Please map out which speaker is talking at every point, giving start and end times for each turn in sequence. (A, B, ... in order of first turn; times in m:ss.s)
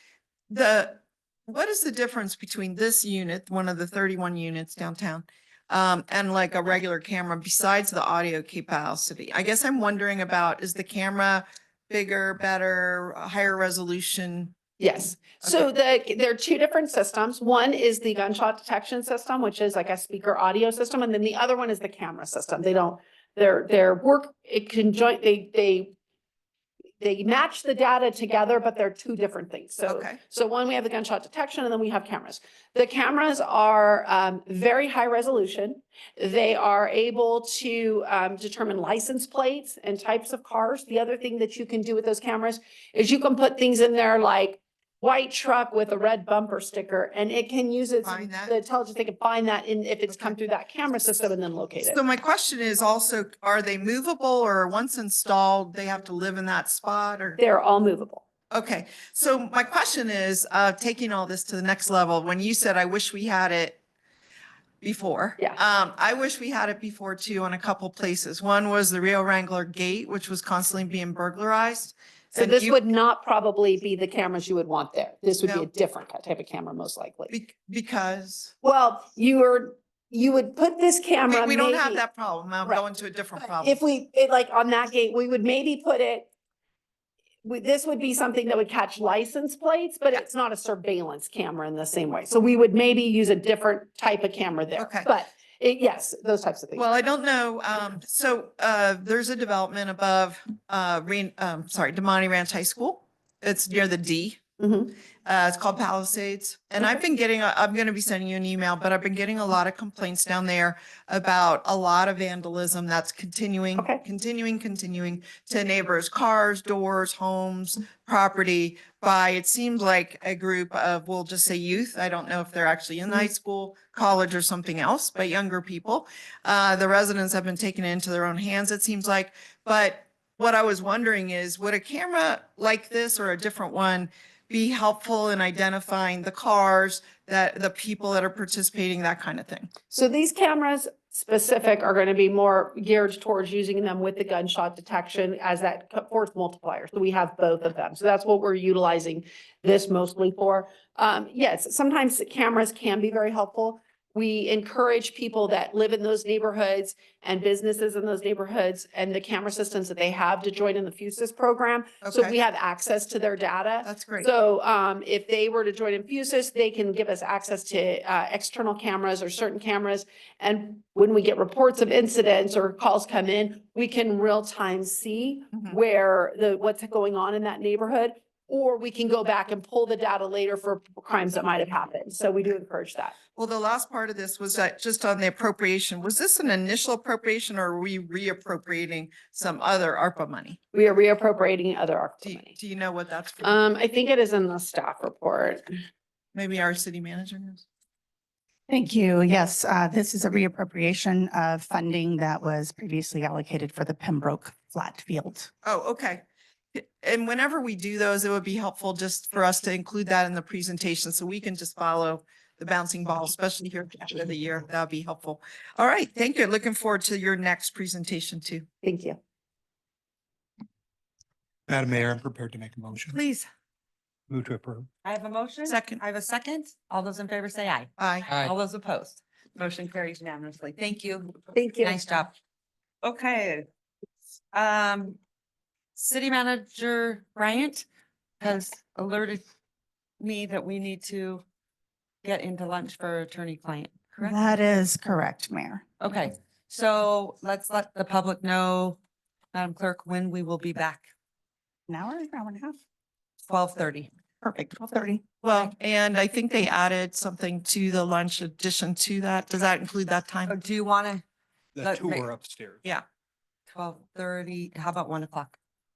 0:00.5-0:14.6 A
0:14.8-0:25.9 B
0:27.0-0:52.0 B
0:29.9-0:30.2 A
0:48.0-0:48.5 A
0:50.1-0:50.4 A
0:51.8-0:57.4 A
0:57.4-0:58.2 B
0:58.5-1:03.8 A
1:04.8-1:12.8 A
1:12.4-1:17.3 B
1:17.3-1:18.5 A
1:18.6-1:22.0 B
1:21.3-1:23.8 A
1:23.6-1:26.3 B
1:27.4-1:36.8 B
1:34.8-1:35.1 A
1:36.8-1:44.4 A
1:44.6-1:44.9 B
1:45.2-2:19.7 A
1:53.8-1:54.0 B
2:19.9-3:03.2 B
2:42.0-2:42.3 A
2:43.8-2:44.3 A
3:03.4-3:10.6 A
3:10.7-3:12.6 B
3:12.2-3:13.6 A
3:13.4-3:15.6 B
3:16.3-3:17.6 A
3:18.7-3:25.5 C
3:25.6-3:26.2 A
3:26.7-3:38.7 A
3:38.8-3:39.2 B
3:41.7-3:43.2 D
3:43.1-3:43.5 E
3:44.3-3:44.9 D
3:45.0-3:52.3 E
3:45.7-3:46.0 A
3:48.0-3:48.3 A
3:51.5-3:52.0 B
3:53.0-3:53.6 E
3:54.5-3:55.2 E
3:56.0-3:57.8 E
3:58.4-3:59.4 E
4:00.2-4:01.4 E
4:02.2-4:04.5 E
4:04.2-4:05.8 C
4:06.0-4:09.0 E
4:09.5-4:11.1 E
4:11.9-4:12.8 C
4:13.4-4:14.1 E
4:14.4-4:15.3 C
4:15.4-4:20.5 A
4:20.5-4:21.2 E
4:21.8-4:22.8 D
4:21.8-4:22.3 E
4:23.7-4:25.6 E